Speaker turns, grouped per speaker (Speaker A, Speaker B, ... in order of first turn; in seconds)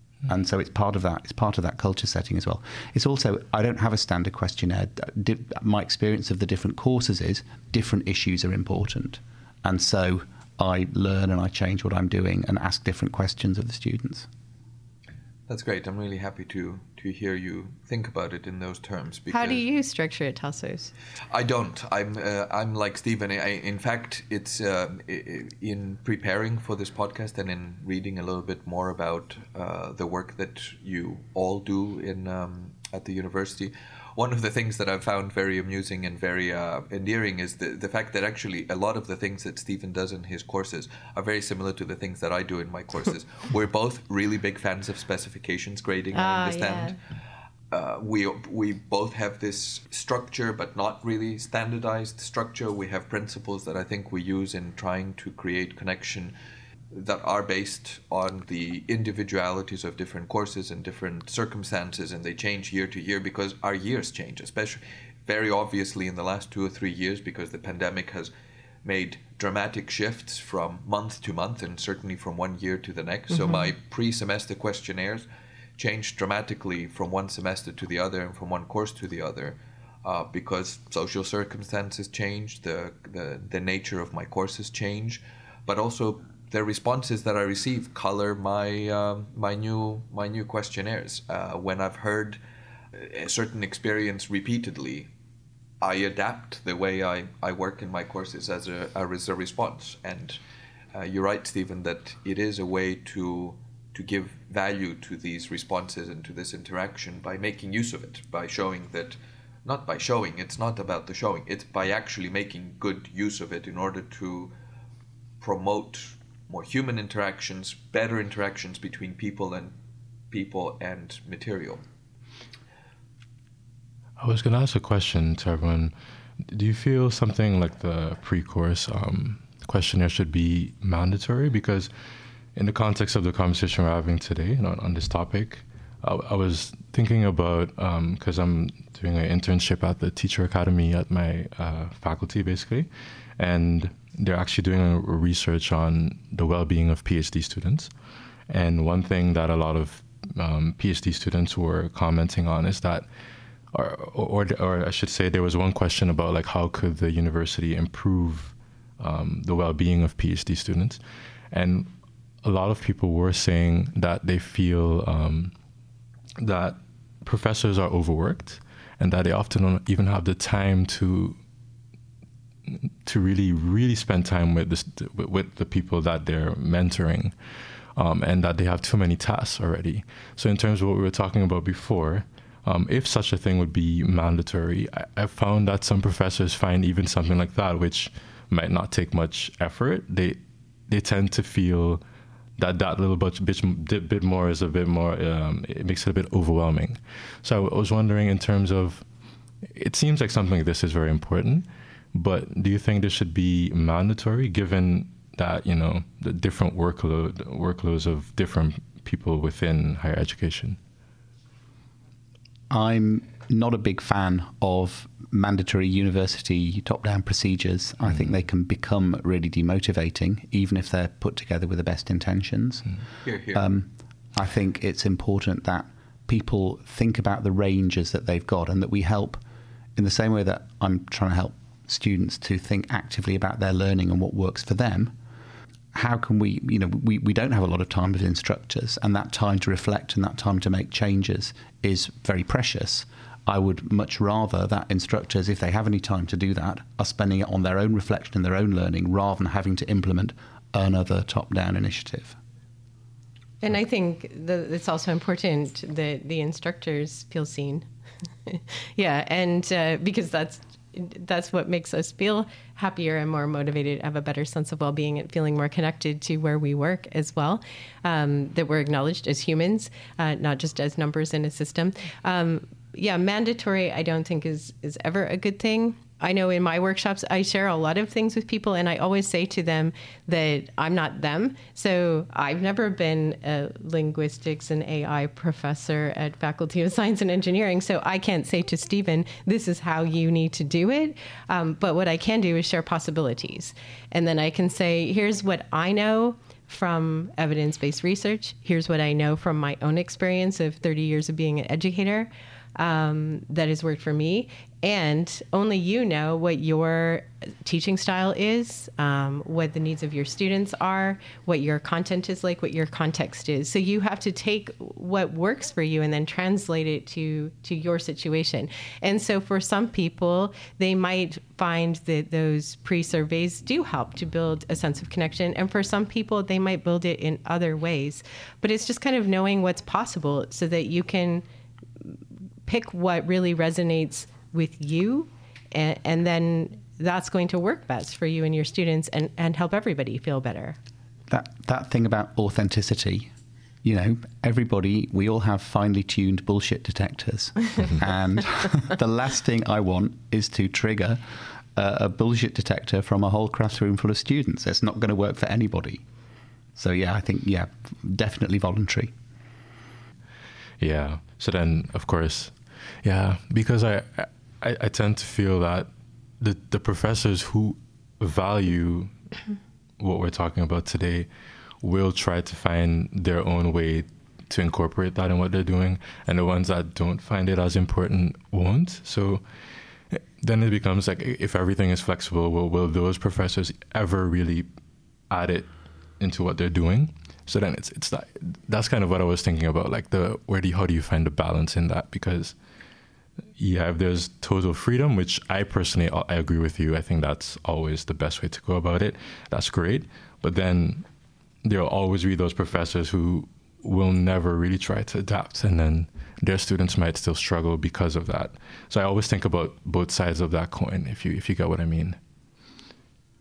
Speaker A: 0.3-14.3, 212.7-223.0, 223.5-229.4, 230.0-235.2, 235.9-252.4, 341.3-343.3, 343.8-351.2, 351.8-356.0, 356.8-359.1
Speaker B: 15.5-19.6, 21.3-47.0, 47.7-56.3, 56.9-68.3, 68.8-75.3, 75.8-92.4, 92.9-95.1, 95.8-100.4, 100.9-114.5, 115.4-119.8, 120.3-121.8, 223.2-223.6
Speaker C: 19.3-20.9, 46.1-47.0, 73.3-73.6, 253.6-257.9, 258.5-331.4, 332.0-340.8
Speaker D: 124.2-125.9, 126.5-131.9, 132.6-147.9, 148.5-153.1, 153.7-161.0, 161.5-161.9, 162.4-165.5, 166.4-171.4, 172.7-177.3, 178.0-192.0, 192.6-199.1, 199.7-210.8, 360.8-365.9, 366.4-369.1, 370.0-371.3, 371.8-379.4, 380.1-384.7, 385.3-392.6, 393.6-401.1, 401.6-412.2